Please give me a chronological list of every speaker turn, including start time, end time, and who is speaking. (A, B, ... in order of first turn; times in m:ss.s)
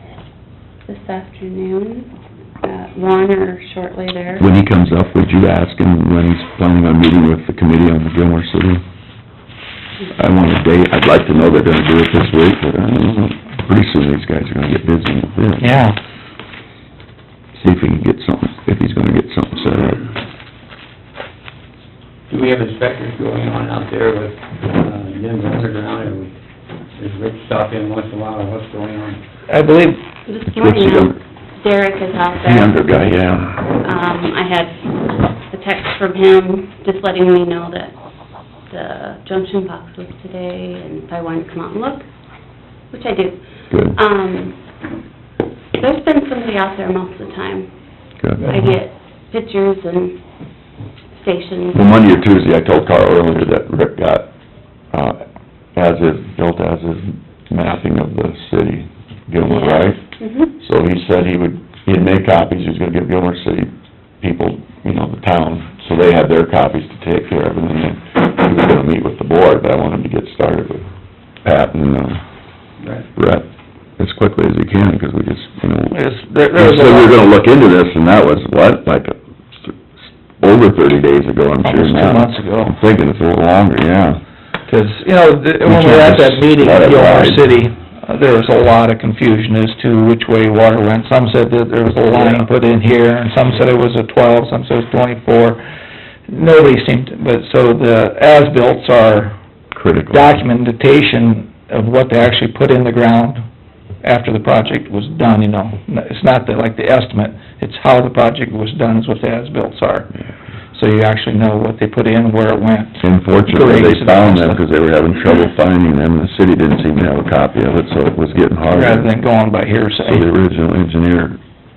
0:00.8-0:02.1 A
0:02.6-0:04.5 A
0:04.4-0:08.8 B
0:10.1-0:15.7 B
0:15.6-0:16.0 C
0:17.5-0:20.1 B
0:22.3-0:26.3 D
0:27.0-0:29.2 D
0:29.5-0:30.0 C
0:30.2-0:32.8 A
0:30.5-0:31.2 B
0:32.4-0:33.7 B
0:33.8-0:34.8 A
0:35.4-0:37.9 A
0:38.7-0:42.0 A
0:42.9-0:44.6 A
0:43.7-0:44.0 B
0:45.8-0:47.7 A
0:48.2-0:48.5 B
0:48.4-0:50.2 A
0:51.1-0:51.8 A
0:51.7-0:54.3 B
0:54.9-0:55.2 B
0:55.7-1:00.0 B
0:59.4-1:00.5 A
1:00.6-1:10.9 B
1:11.4-1:12.2 B
1:12.8-1:13.1 D
1:13.2-1:13.5 B
1:14.0-1:16.0 B
1:15.9-1:17.3 C
1:16.5-1:19.8 B
1:20.4-1:24.2 B
1:21.6-1:22.8 C
1:24.7-1:35.6 C
1:25.6-1:27.4 B
1:36.3-1:39.4 C
1:39.7-1:40.3 B
1:40.1-1:43.4 C
1:44.0-1:50.1 C
1:50.7-1:54.6 C
1:53.0-1:59.1 B
1:58.6-2:00.2 C
2:00.0-2:01.4 B